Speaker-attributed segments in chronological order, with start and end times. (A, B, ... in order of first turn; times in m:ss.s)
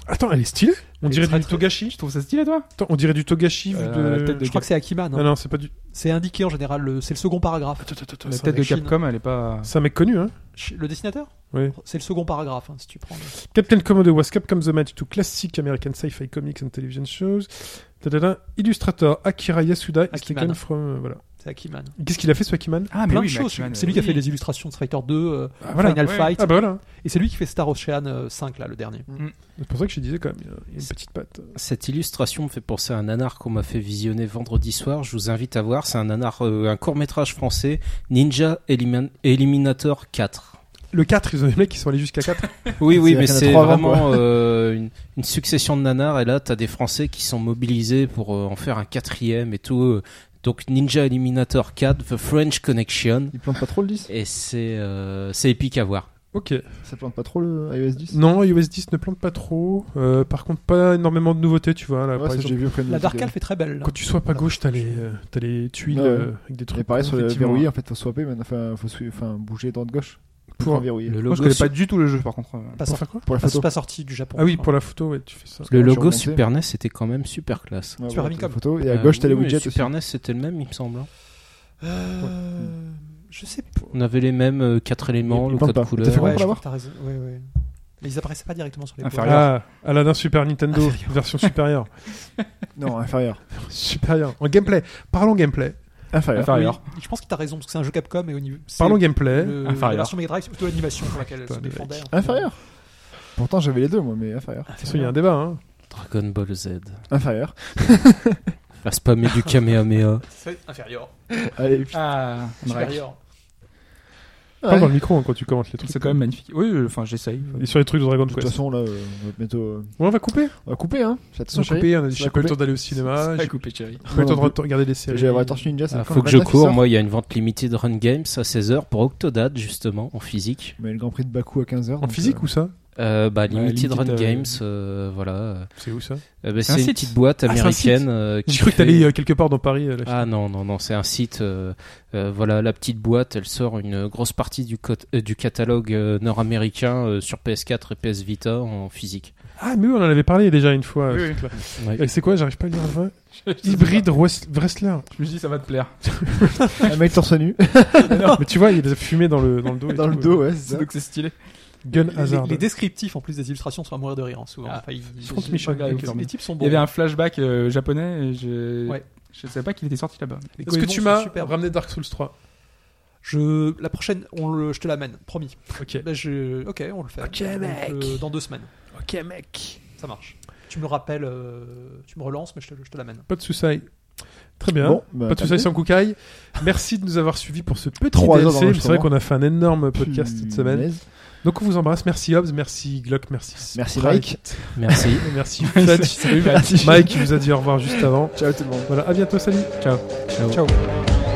0:00.1-0:02.1 A
0:01.0-0:01.8 B
0:01.9-0:02.7 C
0:02.8-0:04.5 A
0:03.7-0:04.7 C
0:04.4-0:07.9 B
0:05.1-0:05.8 A
0:07.8-0:08.6 A
0:08.2-0:09.7 C
0:08.5-0:09.0 B
0:09.1-0:10.4 A
0:10.5-0:13.4 B
0:11.5-0:11.8 A
0:13.4-0:23.0 A
0:20.1-0:22.0 B
0:22.9-0:24.2 C
0:23.0-0:29.2 B
0:25.6-0:26.8 A
0:26.0-0:26.3 C
0:29.4-0:31.6 A
0:31.5-0:40.6 D
0:40.9-0:42.8 A
0:42.8-0:56.1 D
0:42.8-0:44.3 E
0:53.3-0:54.1 E
0:56.3-0:56.9 A
0:56.8-0:58.2 E
0:58.1-1:02.8 A
1:02.1-1:03.4 E
1:02.8-1:05.2 B
1:03.8-1:07.7 A
1:05.9-1:11.2 E
1:10.6-1:10.9 A
1:11.1-1:11.7 D
1:11.3-1:12.8 C
1:12.8-1:15.0 B
1:12.9-1:13.3 A
1:13.2-1:13.7 E
1:14.4-1:15.7 A
1:15.7-1:16.5 E
1:15.7-1:18.0 D
1:18.0-1:20.0 E
1:18.1-1:18.7 B
1:18.9-1:21.1 D
1:21.8-1:23.9 B
1:23.9-1:26.5 D
1:25.3-1:25.6 A
1:25.5-1:26.7 E
1:26.0-1:29.7 B
1:29.0-1:29.7 C
1:29.2-1:32.2 A
1:30.7-1:31.5 B
1:32.7-1:33.5 E
1:33.5-1:36.1 A
1:36.1-1:36.6 E
1:36.3-1:37.0 C
1:36.4-1:42.6 B
1:38.8-1:39.6 A
1:39.6-1:40.2 C
1:41.1-1:42.1 A
1:42.1-1:44.8 E
1:44.7-1:45.3 B
1:44.8-1:45.6 A
1:45.9-1:47.0 D
1:47.1-1:48.4 E
1:48.8-1:50.3 D
1:50.2-1:51.1 B
1:51.4-1:52.3 E
1:51.9-1:53.0 C
1:52.6-1:53.2 B
1:54.6-1:55.1 E
1:54.7-1:56.3 A
1:55.8-1:57.7 C
1:57.6-1:58.7 A
1:58.1-2:02.6 E
2:00.0-2:00.7 A
2:01.5-2:05.8 A
2:02.9-2:04.0 C
2:04.0-2:06.8 E
2:05.9-2:10.8 D
2:10.8-2:12.6 E
2:12.0-2:12.8 A
2:13.0-2:19.1 D
2:13.5-2:14.6 C
2:15.8-2:16.2 A
2:16.6-2:17.5 C
2:17.5-2:20.3 A
2:20.0-2:29.3 D
2:29.6-2:35.3 A
2:31.1-2:31.7 C
2:31.7-2:32.1 D
2:33.4-2:34.4 C
2:35.1-2:36.8 C
2:36.8-2:38.3 E
2:38.1-2:38.3 C
2:38.4-2:40.5 A
2:39.9-2:40.9 E
2:40.5-2:41.8 C
2:41.8-2:42.7 A
2:41.9-2:46.9 B
2:44.6-2:50.5 C
2:45.2-2:46.3 A
2:50.6-2:51.7 B
2:50.7-2:52.4 A
2:53.2-2:58.7 B
2:55.8-2:56.0 A
2:57.2-2:58.2 A
2:58.9-2:59.9 A
2:59.9-3:03.3 B
3:03.3-3:20.1 A
3:04.7-3:06.1 E
3:08.1-3:09.1 E
3:09.9-3:11.1 E
3:13.7-3:18.9 E
3:14.8-3:15.4 D
3:15.6-3:17.2 C
3:19.8-3:20.4 C
3:20.4-3:20.8 B